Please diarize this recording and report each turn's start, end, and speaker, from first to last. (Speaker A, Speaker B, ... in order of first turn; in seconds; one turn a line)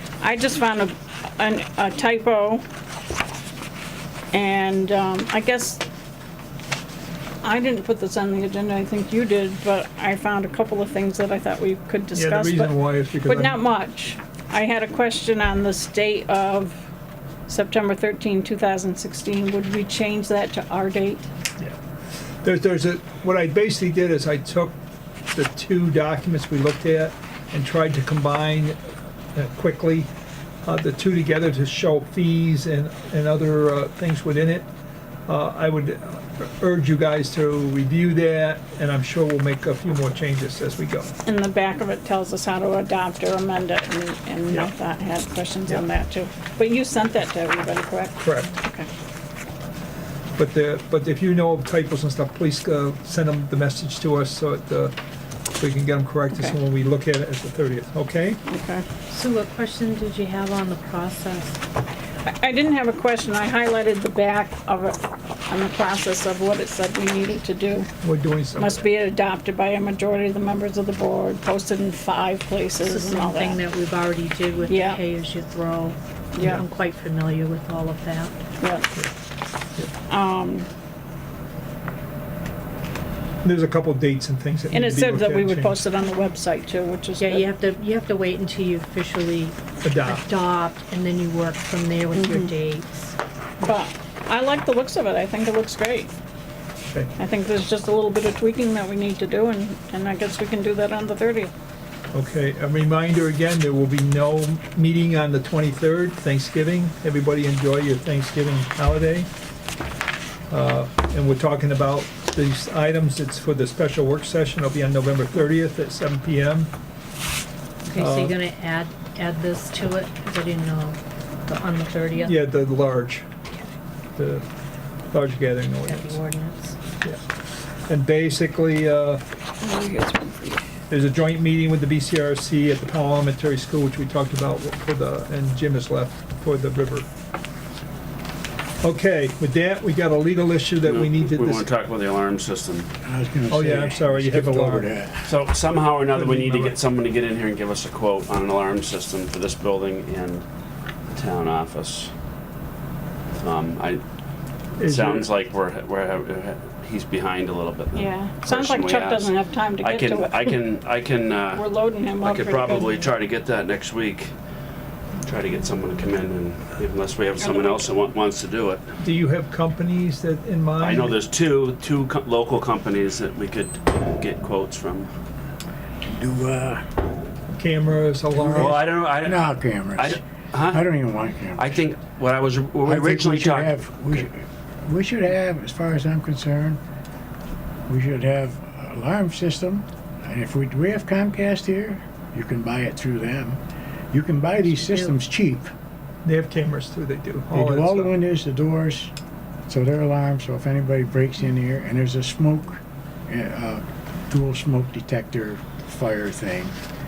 Speaker A: 0.2-2.6
Speaker A: 4.3-5.8
Speaker A: 7.4-16.9
Speaker B: 12.1-13.6
Speaker A: 17.5-21.3
Speaker B: 22.4-24.7
Speaker B: 25.3-28.8
Speaker B: 29.3-30.1
Speaker B: 30.6-34.7
Speaker B: 35.3-41.1
Speaker A: 41.2-48.9
Speaker B: 48.2-48.5
Speaker B: 50.4-55.0
Speaker B: 55.6-58.4
Speaker A: 58.5-58.9
Speaker C: 59.1-61.6
Speaker A: 62.2-67.9
Speaker B: 68.0-68.9
Speaker A: 68.5-73.6
Speaker C: 72.8-78.4
Speaker A: 74.7-75.0
Speaker A: 76.3-76.6
Speaker A: 78.6-78.9
Speaker A: 80.1-80.7
Speaker B: 83.4-85.8
Speaker A: 84.7-87.5
Speaker C: 87.2-93.2
Speaker B: 89.8-90.2
Speaker A: 92.1-92.5
Speaker A: 93.6-96.1
Speaker A: 97.2-101.5
Speaker B: 102.1-109.3
Speaker B: 110.5-116.7
Speaker C: 117.9-122.4
Speaker B: 118.0-118.4
Speaker B: 122.2-123.3
Speaker B: 124.2-124.5
Speaker B: 125.1-126.2
Speaker C: 125.8-126.8
Speaker B: 127.9-129.2
Speaker A: 129.6-130.6
Speaker B: 130.9-137.1
Speaker B: 138.8-141.7
Speaker D: 140.8-142.9
Speaker E: 143.0-145.3
Speaker B: 143.5-144.9
Speaker D: 145.3-150.4
Speaker B: 146.1-146.8
Speaker D: 151.1-152.1
Speaker D: 153.3-154.0
Speaker B: 154.8-155.3
Speaker D: 154.8-161.6
Speaker A: 157.9-160.5
Speaker A: 161.5-163.1
Speaker D: 162.2-164.3
Speaker D: 165.2-168.8
Speaker A: 167.4-167.9
Speaker B: 169.0-171.2
Speaker D: 170.8-175.1
Speaker E: 176.1-176.8
Speaker B: 177.5-178.8
Speaker E: 178.4-181.8
Speaker D: 178.6-179.4
Speaker D: 180.0-180.9
Speaker D: 181.6-184.3
Speaker E: 182.8-186.8
Speaker E: 187.9-193.6
Speaker E: 194.1-195.7
Speaker C: 194.7-195.1
Speaker B: 196.2-198.1
Speaker E: 197.5-199.1
Speaker E: 199.7-206.8